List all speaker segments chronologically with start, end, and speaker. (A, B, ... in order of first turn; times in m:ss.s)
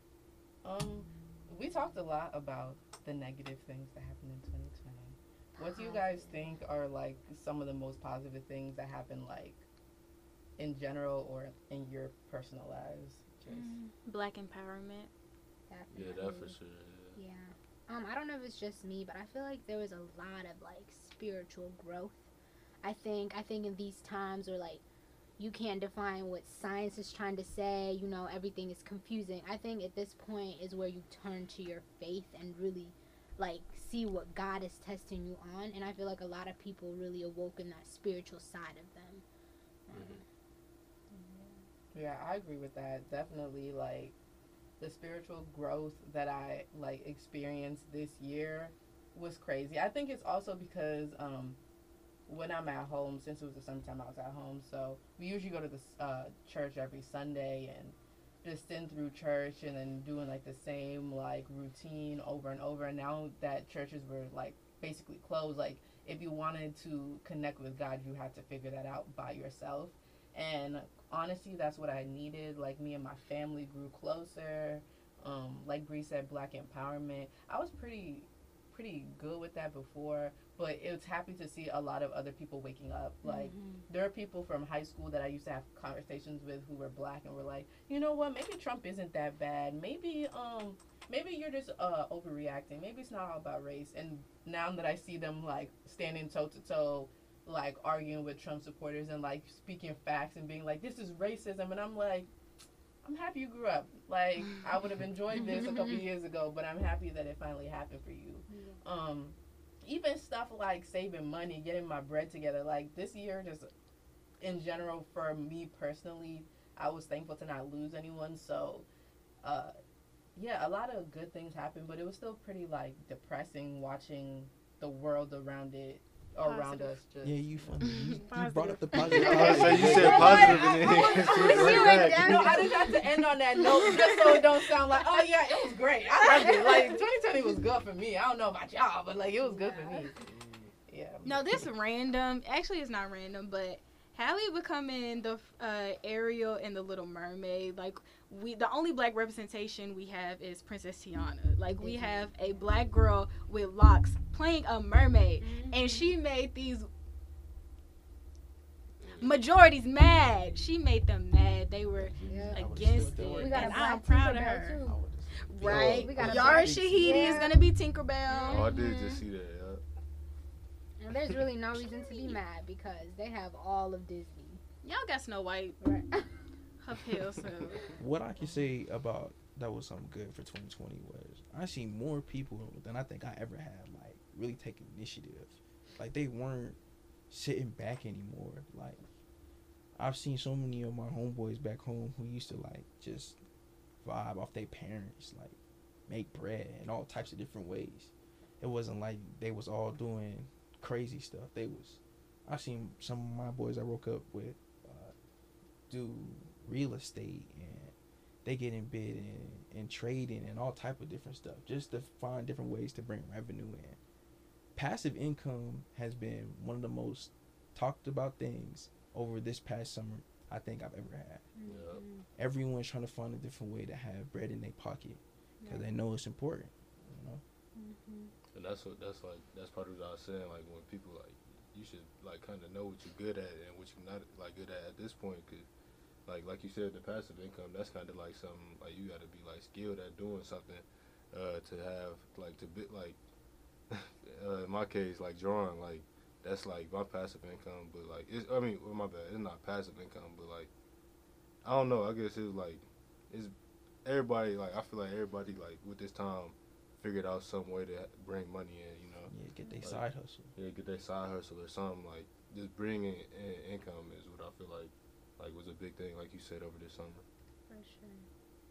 0:00.6-0:09.6 A
0:05.6-0:06.5 B
0:10.6-0:13.8 A
0:13.5-0:13.9 B
0:14.0-0:15.1 C
0:15.7-0:16.6 B
0:15.9-0:17.2 D
0:17.2-0:22.3 B
0:22.8-0:24.8 B
0:25.4-0:39.2 B
0:39.9-0:40.2 B
0:39.9-0:40.2 D
0:41.1-0:41.6 B
0:41.9-0:44.1 A
0:44.8-0:51.6 A
0:52.3-1:42.3 A
1:23.2-1:23.8 B
1:43.0-1:53.7 A
1:48.5-1:48.8 B
1:54.4-1:58.9 A
1:59.4-1:59.7 A
2:00.4-2:07.7 A
2:06.4-2:07.0 C
2:07.2-2:10.7 E
2:07.9-2:10.9 C
2:09.1-2:12.6 D
2:09.2-2:14.4 B
2:10.7-2:20.2 A
2:16.2-2:17.0 B
2:19.4-2:20.1 B
2:20.2-2:20.7 D
2:20.9-2:21.5 A
2:21.2-2:36.9 C
2:31.8-2:32.6 B
2:35.4-2:36.1 B
2:39.0-2:39.3 D
2:39.2-2:44.8 C
2:42.0-2:43.8 E
2:42.2-2:45.0 B
2:44.8-2:47.5 E
2:45.5-2:48.7 C
2:45.6-2:47.6 B
2:48.3-2:49.2 B
2:48.5-2:49.8 D
2:51.0-2:54.6 B
2:54.8-2:55.8 C
2:55.8-2:56.3 B
2:56.8-2:57.9 C
2:58.0-3:06.8 E
3:07.3-3:09.0 E
3:10.0-3:13.4 E
3:14.0-3:25.1 E
3:25.9-3:34.0 E
3:34.7-3:41.5 E
3:41.5-3:42.3 B
3:41.6-3:42.0 D
3:42.4-3:47.4 E
3:45.6-3:45.9 B
3:47.7-3:48.3 B
3:48.5-3:55.7 D
3:56.2-4:03.2 D
4:03.9-4:10.7 D
4:11.6-4:27.2 D
4:19.3-4:20.5 E
4:27.7-4:28.2 B